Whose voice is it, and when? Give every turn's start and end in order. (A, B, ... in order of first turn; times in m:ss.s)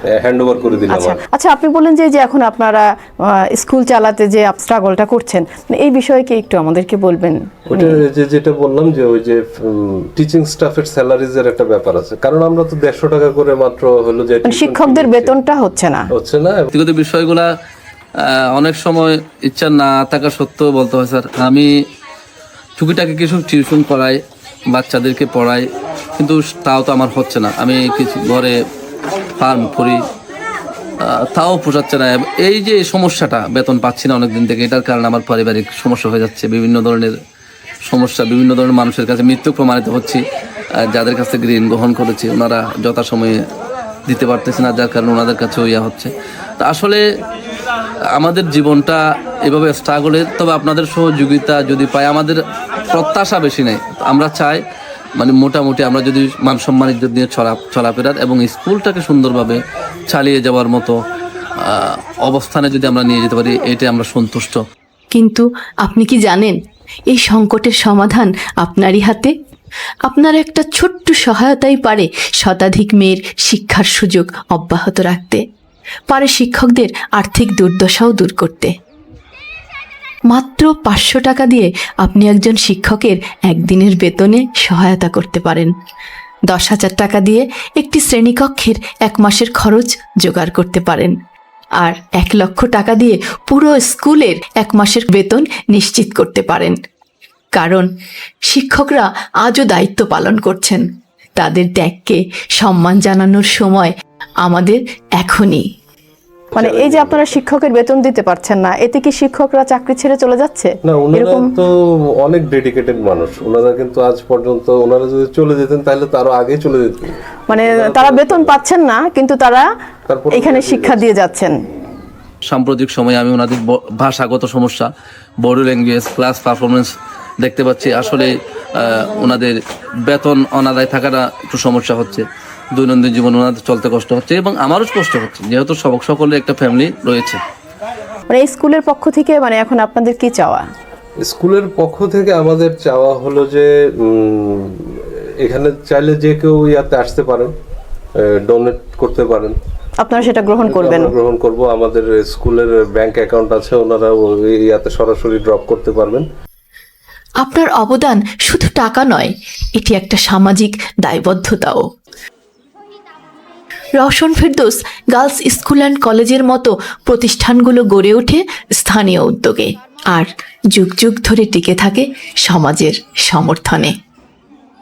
0:00.2-0:01.2 A
0:00.9-0:08.0 B
0:07.7-0:15.4 A
0:14.4-0:16.1 B
0:16.1-0:16.7 A
0:16.7-0:17.5 C
0:18.2-0:21.7 C
0:22.8-0:24.2 C
0:24.7-0:25.6 C
0:26.2-0:28.6 C
0:29.4-0:30.0 C
0:31.0-0:37.1 C
0:37.9-0:40.2 C
0:40.9-0:43.4 C
0:44.1-0:47.0 C
0:48.2-0:52.4 C
0:52.9-0:54.6 C
0:55.2-1:01.0 C
1:01.6-1:04.6 C
1:05.1-1:06.6 D
1:07.1-1:09.3 D
1:10.1-1:15.4 D
1:16.1-1:18.7 D
1:20.3-1:25.7 D
1:26.5-1:31.1 D
1:31.8-1:36.8 D
1:37.6-1:37.9 D
1:38.5-1:40.8 D
1:41.4-1:45.7 D
1:46.5-1:47.3 A
1:46.6-1:51.5 B
1:50.8-1:51.7 A
1:52.2-1:58.6 A
1:57.5-1:59.7 B
2:00.1-2:01.1 A
2:00.3-2:01.6 B
2:02.5-2:04.9 C
2:05.4-2:09.6 C
2:10.1-2:17.4 C
2:18.3-2:20.6 B
2:21.2-2:24.7 A
2:25.4-2:27.5 A
2:28.3-2:29.6 A
2:30.0-2:31.1 B
2:30.2-2:36.3 A
2:37.4-2:41.8 D
2:44.0-2:53.9 D